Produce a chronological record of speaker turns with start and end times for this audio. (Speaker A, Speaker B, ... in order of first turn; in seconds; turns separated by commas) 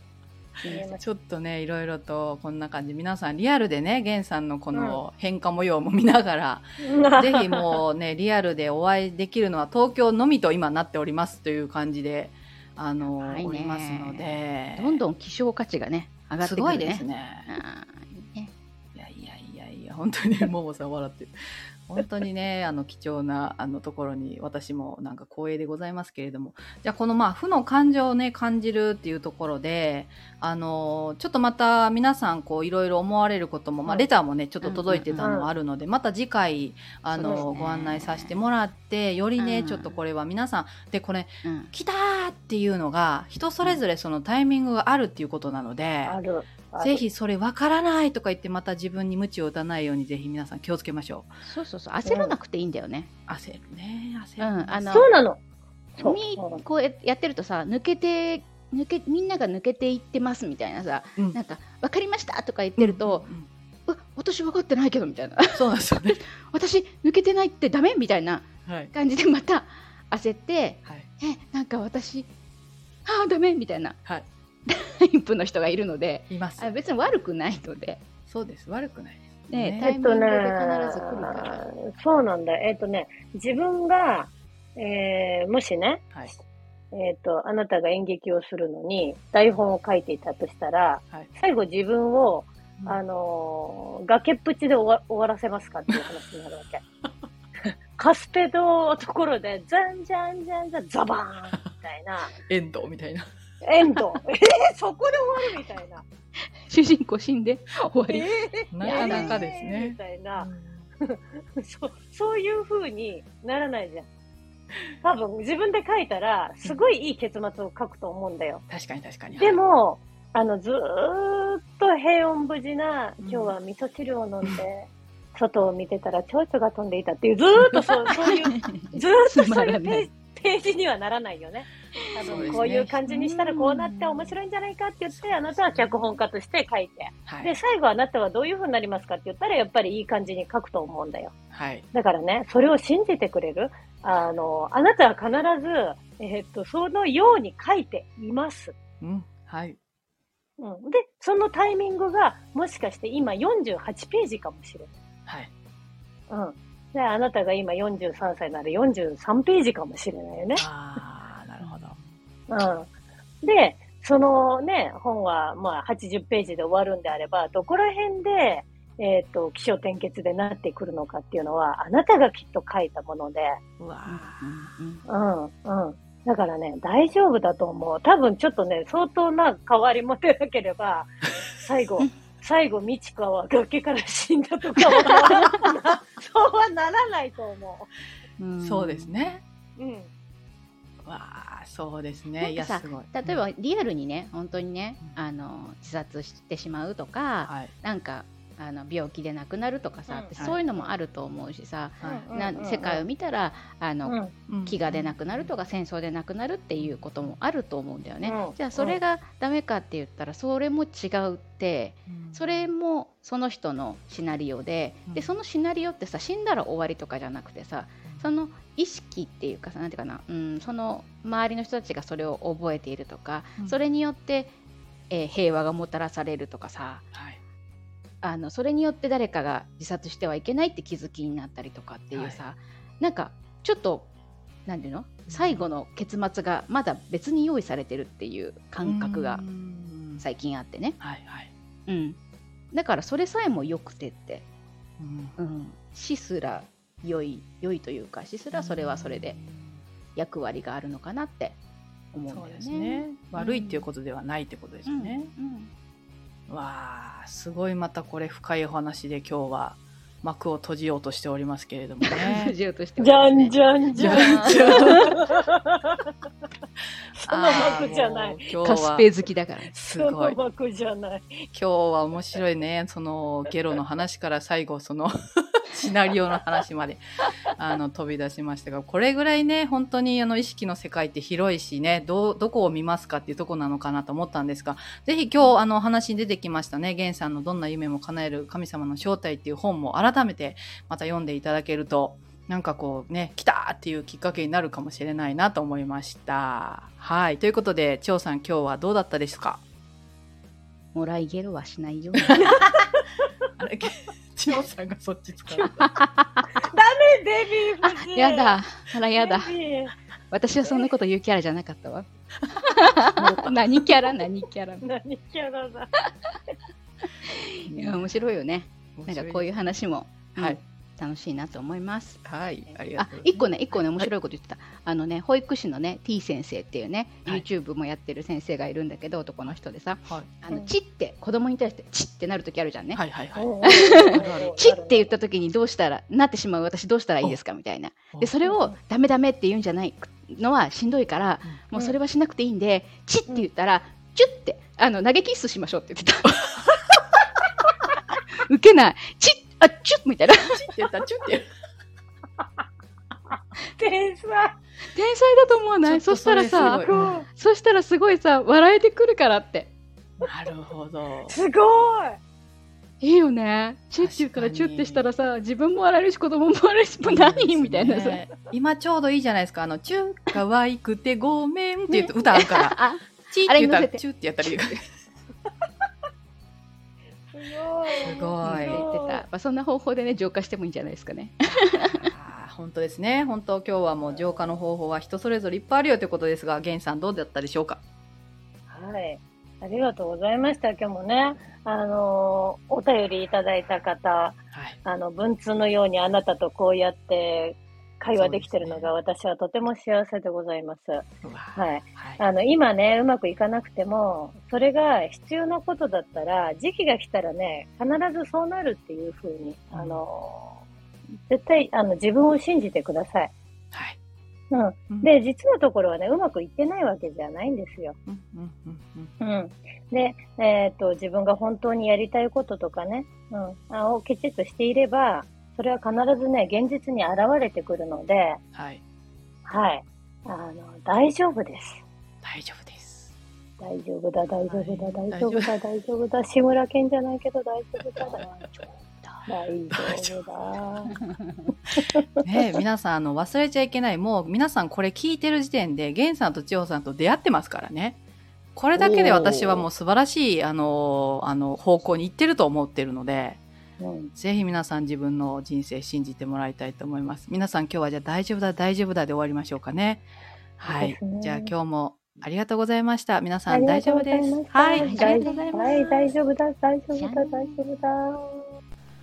Speaker A: 0.6-0.9, Speaker B: 0.7-1.0, Speaker C: 1.0-15.0, Speaker B: 4.7-5.0, Speaker B: 6.8-7.8, Speaker A: 13.2-18.5, Speaker C: 16.4-17.5, Speaker C: 18.9-21.4, Speaker C: 21.9-46.2, Speaker A: 34.6-35.4, Speaker B: 35.2-35.5, Speaker A: 37.1-38.4, Speaker A: 39.4-40.0, Speaker A: 41.4-41.7, Speaker B: 46.0-47.0, Speaker C: 46.8-51.3, Speaker A: 51.4-53.1, Speaker B: 52.0-52.3, Speaker C: 53.3-55.1, Speaker A: 54.4-55.1, Speaker B: 54.9-55.4, Speaker B: 56.0-56.6, Speaker A: 56.0-63.3, Speaker C: 62.8-63.5, Speaker A: 63.9-65.7, Speaker C: 65.5-66.2, Speaker A: 66.5-72.3, Speaker C: 68.7-68.9, Speaker A: 73.1-74.0, Speaker A: 74.7-78.0, Speaker C: 76.3-76.7, Speaker C: 78.3-79.9, Speaker A: 79.5-81.7, Speaker B: 79.8-86.1, Speaker B: 86.9-96.8, Speaker B: 98.0-102.3, Speaker C: 102.4-103.3, Speaker B: 103.6-106.0, Speaker A: 106.7-108.3, Speaker B: 108.1-110.5, Speaker C: 108.7-110.8, Speaker A: 108.8-109.4, Speaker B: 111.0-114.1, Speaker B: 115.0-118.6, Speaker C: 118.7-119.6, Speaker B: 119.4-141.3, Speaker C: 123.2-123.6, Speaker A: 128.3-130.1, Speaker A: 132.2-134.3, Speaker C: 132.2-133.0, Speaker C: 135.1-136.0, Speaker C: 137.3-137.5, Speaker C: 141.5-141.9, Speaker B: 141.9-148.7, Speaker C: 149.0-149.8, Speaker B: 150.6-154.9, Speaker C: 155.3-155.5, Speaker B: 156.3-160.7, Speaker C: 160.6-162.0, Speaker A: 161.6-161.9, Speaker B: 162.5-162.9, Speaker B: 163.4-173.6, Speaker C: 173.8-174.5, Speaker A: 174.1-175.0, Speaker B: 175.1-187.9, Speaker C: 185.0-185.7, Speaker A: 188.4-189.3, Speaker C: 188.6-189.4, Speaker B: 189.8-190.1, Speaker C: 191.0-193.4, Speaker A: 192.4-224.5, Speaker C: 197.4-197.7, Speaker B: 200.1-201.0, Speaker C: 202.0-202.3, Speaker B: 202.0-203.1, Speaker B: 204.1-204.3, Speaker C: 204.5-205.5, Speaker C: 206.8-207.4, Speaker B: 208.2-209.0, Speaker C: 212.1-212.7, Speaker C: 215.1-215.3, Speaker A: 225.1-227.0, Speaker C: 227.1-227.4, Speaker A: 228.2-234.1, Speaker C: 232.1-232.4, Speaker A: 234.7-239.4, Speaker C: 235.3-235.7, Speaker C: 238.8-240.2, Speaker A: 240.2-241.0, Speaker C: 241.0-241.5, Speaker A: 241.9-242.2, Speaker A: 242.7-244.5, Speaker C: 245.0-245.4, Speaker A: 245.4-249.4, Speaker C: 248.5-249.8, Speaker A: 250.2-251.6, Speaker A: 252.1-253.9, Speaker C: 252.3-255.3, Speaker A: 254.9-255.7, Speaker C: 256.5-262.5, Speaker A: 262.0-265.2, Speaker B: 263.0-266.1, Speaker C: 264.0-265.1, Speaker B: 267.2-268.6, Speaker C: 267.2-269.1, Speaker A: 268.6-269.7, Speaker C: 269.7-270.4, Speaker B: 270.0-271.4, Speaker C: 271.5-277.0, Speaker C: 277.6-299.6, Speaker A: 300.9-302.6, Speaker C: 302.2-302.7, Speaker C: 303.6-306.0, Speaker A: 305.6-306.2, Speaker B: 306.6-308.6, Speaker A: 307.8-309.6, Speaker B: 309.1-309.9, Speaker A: 310.3-314.9, Speaker C: 313.2-314.1, Speaker B: 314.8-315.9, Speaker A: 317.2-322.2, Speaker C: 317.7-318.3, Speaker C: 319.0-319.6, Speaker C: 322.2-324.1, Speaker A: 322.9-333.0, Speaker C: 332.9-334.5, Speaker B: 333.4-335.1, Speaker A: 333.6-346.5, Speaker B: 338.4-338.7, Speaker A: 348.5-350.6, Speaker C: 350.5-351.5, Speaker B: 353.8-354.6, Speaker A: 354.9-359.7, Speaker C: 355.9-357.2, Speaker B: 356.5-357.3, Speaker C: 360.2-361.4, Speaker B: 361.3-362.2, Speaker A: 363.0-368.2, Speaker C: 364.0-365.1, Speaker C: 367.0-374.8, Speaker A: 371.9-374.6, Speaker B: 377.3-379.2, Speaker C: 378.0-378.8, Speaker A: 378.4-382.1, Speaker C: 381.9-387.8, Speaker B: 384.0-384.5, Speaker B: 388.7-410.6, Speaker C: 394.5-394.8, Speaker C: 398.1-398.9, Speaker C: 401.2-402.2, Speaker C: 409.7-410.0, Speaker B: 411.3-413.3, Speaker C: 413.7-414.0, Speaker B: 414.5-418.0, Speaker C: 418.1-419.1, Speaker B: 419.2-428.4, Speaker C: 428.5-428.8, Speaker B: 429.5-431.9, Speaker C: 432.2-433.1, Speaker B: 433.6-438.5, Speaker C: 434.5-435.5, Speaker C: 438.0-438.2, Speaker B: 439.3-440.9, Speaker C: 439.7-440.2, Speaker A: 440.9-441.3, Speaker B: 441.7-442.1, Speaker C: 442.2-448.0, Speaker C: 448.6-453.4, Speaker A: 448.8-449.6, Speaker B: 448.9-449.3, Speaker B: 453.8-454.1, Speaker C: 454.2-460.1, Speaker C: 460.6-465.4, Speaker B: 460.6-461.5, Speaker B: 463.5-468.5, Speaker A: 464.7-466.1, Speaker A: 466.9-467.6